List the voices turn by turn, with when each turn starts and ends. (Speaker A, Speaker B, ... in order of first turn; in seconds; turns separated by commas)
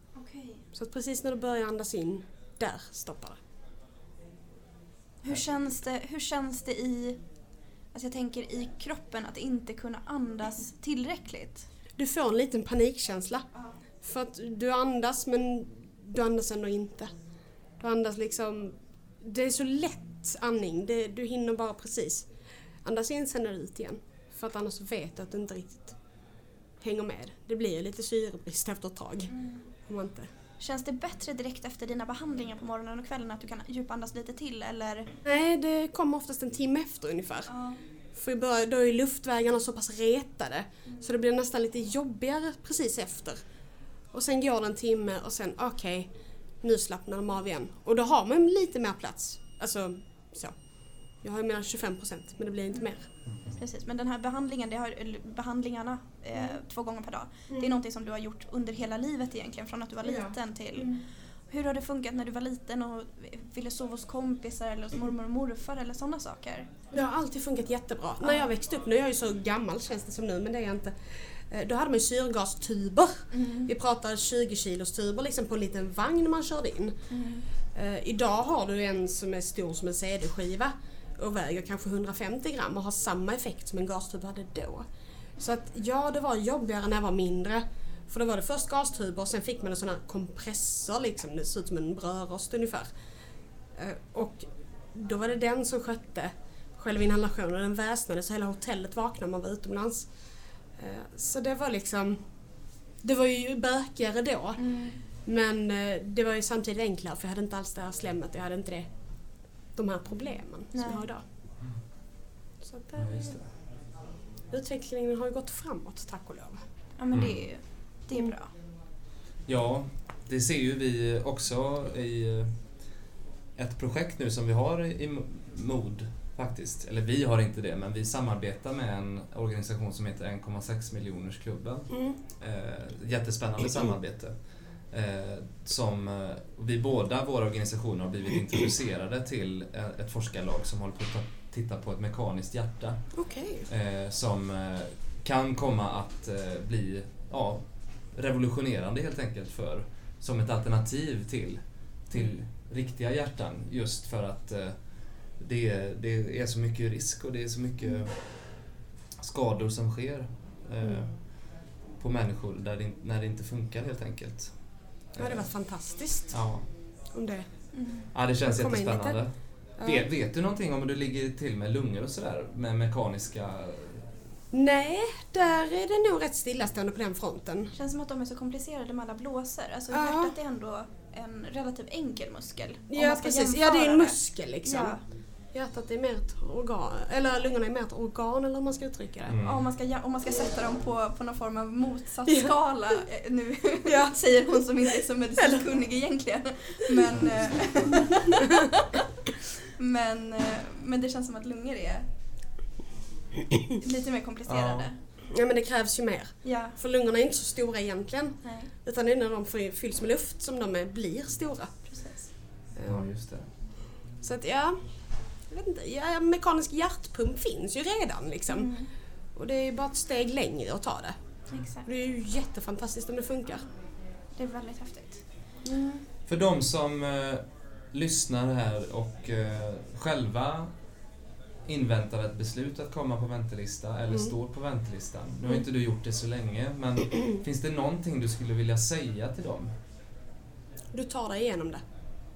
Speaker A: 0.2-0.6, Speaker B: 0.7-3.4, Speaker A: 5.2-7.2, Speaker A: 7.9-11.7, Speaker B: 12.0-13.5, Speaker B: 14.0-17.1, Speaker B: 17.8-22.3, Speaker B: 22.8-26.0, Speaker B: 26.8-29.3, Speaker A: 29.3-29.6, Speaker B: 29.9-30.3, Speaker A: 30.6-35.1, Speaker B: 35.2-37.5, Speaker A: 37.5-37.8, Speaker B: 38.1-43.4, Speaker B: 44.1-46.1, Speaker B: 46.6-50.6, Speaker B: 51.2-53.1, Speaker A: 53.5-66.7, Speaker B: 57.5-57.8, Speaker B: 60.0-61.0, Speaker B: 66.9-77.0, Speaker A: 73.3-73.7, Speaker A: 77.1-77.5, Speaker B: 77.7-84.8, Speaker B: 85.4-92.9, Speaker B: 93.8-100.1, Speaker B: 100.8-102.2, Speaker B: 103.0-104.6, Speaker A: 104.6-105.0, Speaker B: 105.2-108.9, Speaker B: 109.8-111.2, Speaker A: 110.7-111.1, Speaker B: 112.6-113.4, Speaker C: 113.0-113.5, Speaker B: 114.5-116.6, Speaker A: 117.0-118.5, Speaker C: 117.1-117.4, Speaker C: 119.5-122.5, Speaker C: 123.6-143.1, Speaker B: 143.2-143.7, Speaker C: 143.7-158.7, Speaker C: 159.2-164.5, Speaker C: 165.1-165.5, Speaker B: 165.2-166.3, Speaker C: 166.3-166.7, Speaker B: 167.1-167.5, Speaker A: 167.7-168.1, Speaker C: 168.1-174.1, Speaker B: 168.6-169.2, Speaker B: 169.8-170.1, Speaker B: 174.5-177.7, Speaker A: 177.7-185.0, Speaker B: 179.9-180.4, Speaker B: 182.9-185.0, Speaker B: 185.5-189.4, Speaker C: 189.3-189.7, Speaker A: 189.4-199.0, Speaker B: 192.3-192.5, Speaker B: 193.8-195.7, Speaker A: 199.8-202.1, Speaker A: 203.8-205.0, Speaker C: 204.5-204.9, Speaker B: 205.3-211.8, Speaker A: 206.4-206.8, Speaker A: 208.4-208.7, Speaker A: 211.9-212.3, Speaker B: 212.8-213.1, Speaker C: 212.8-213.5, Speaker B: 214.2-214.8, Speaker B: 215.5-218.7, Speaker A: 218.5-218.9, Speaker B: 219.3-221.2, Speaker A: 221.5-221.9, Speaker B: 221.8-223.7, Speaker A: 224.4-225.2, Speaker B: 225.7-226.0, Speaker C: 226.3-230.7, Speaker C: 231.7-239.7, Speaker B: 240.9-241.8